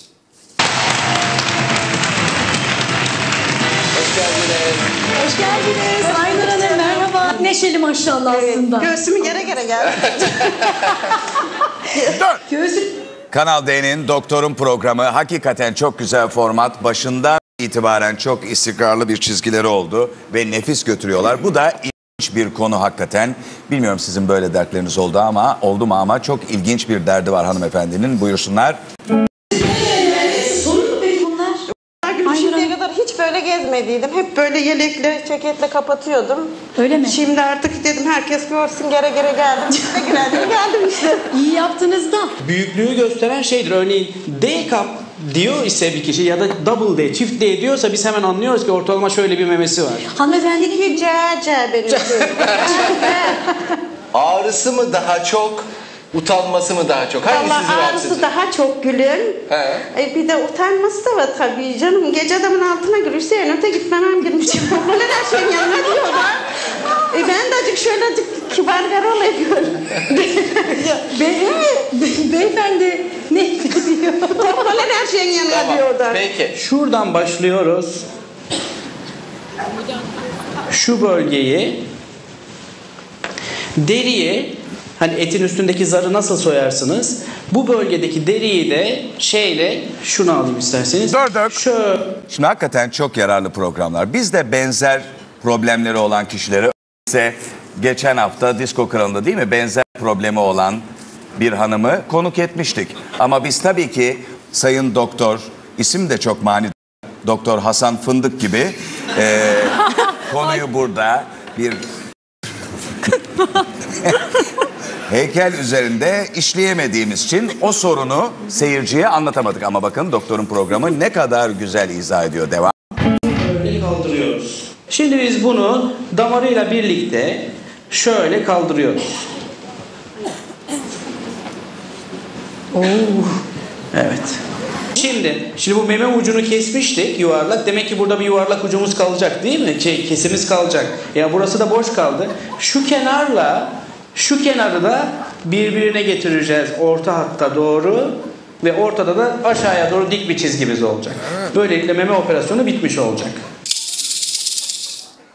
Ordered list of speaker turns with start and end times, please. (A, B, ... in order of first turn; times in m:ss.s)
0:03.9-0:05.0 A
0:05.2-0:08.9 B
0:05.4-0:07.3 C
0:08.3-0:10.8 C
0:11.9-0:12.2 C
0:12.5-0:12.9 B
0:13.3-0:28.8 D
0:29.6-0:31.6 B
0:31.9-0:41.3 C
0:32.2-0:32.7 B
0:36.8-0:37.2 B
0:41.3-0:42.3 B
0:42.4-0:50.1 E
0:50.1-0:51.0 B
0:50.2-0:53.4 C
0:52.4-0:52.8 A
0:54.1-0:58.3 A
0:57.2-0:59.4 C
0:59.5-0:59.8 A
0:59.9-1:06.4 C
1:07.1-1:11.7 C
1:10.9-1:14.5 B
1:14.3-1:16.2 C
1:15.5-1:16.5 A
1:16.5-1:18.0 E
1:20.7-1:21.8 E
1:23.8-1:32.1 E
1:31.1-1:31.6 D
1:32.3-1:40.8 D
1:41.4-1:46.7 D
1:47.2-1:51.8 D
1:55.1-2:02.7 D
2:03.2-2:09.2 E
2:12.7-2:13.4 B
2:13.9-2:14.4 E
2:14.9-2:33.4 E